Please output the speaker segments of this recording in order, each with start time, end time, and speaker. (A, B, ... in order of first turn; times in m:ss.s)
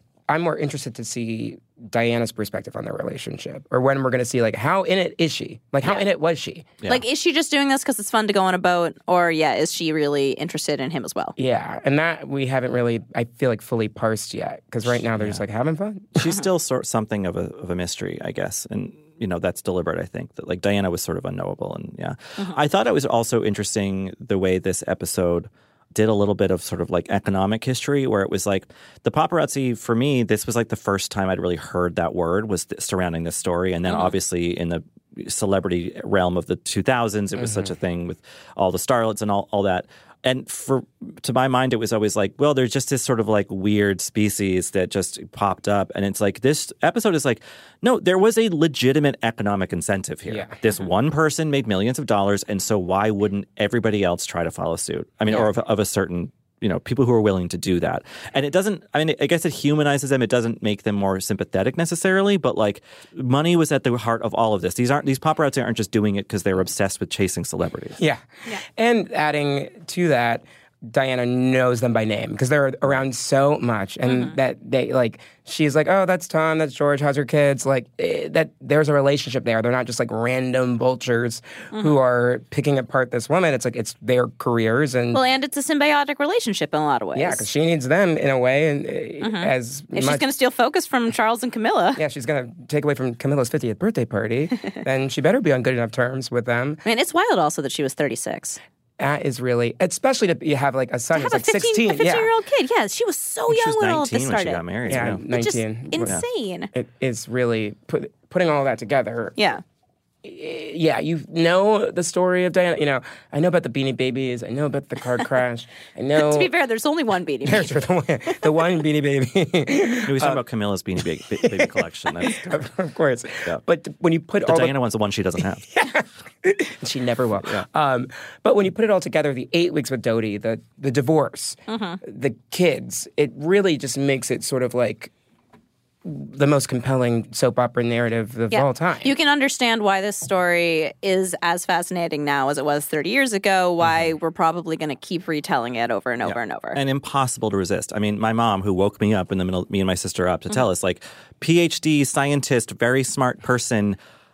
0:00.3-0:06.7 A
0:06.9-0:11.3 B
0:11.4-0:16.2 A
0:14.8-0:15.4 C
0:16.2-1:08.0 C
0:33.9-0:34.1 B
0:37.4-0:37.7 A
0:50.3-0:50.5 A
1:08.0-1:25.2 A
1:14.0-1:14.4 B
1:25.1-1:27.5 B
1:27.1-1:30.3 A
1:29.2-1:32.0 B
1:32.0-1:36.8 A
1:36.8-1:38.6 B
1:39.0-1:42.3 A
1:41.1-1:46.7 B
1:43.5-1:45.2 C
1:44.9-1:46.2 A
1:46.7-1:49.4 A
1:49.4-1:49.6 B
1:50.2-1:56.5 A
1:56.2-1:57.7 B
1:57.4-2:00.4 A
2:00.0-2:02.6 C
2:01.4-2:01.7 A
2:02.4-2:04.7 A
2:04.4-2:05.6 C
2:05.7-2:15.1 A
2:11.7-2:12.0 B
2:16.0-2:19.1 A
2:18.5-2:26.8 B
2:26.2-2:34.0 C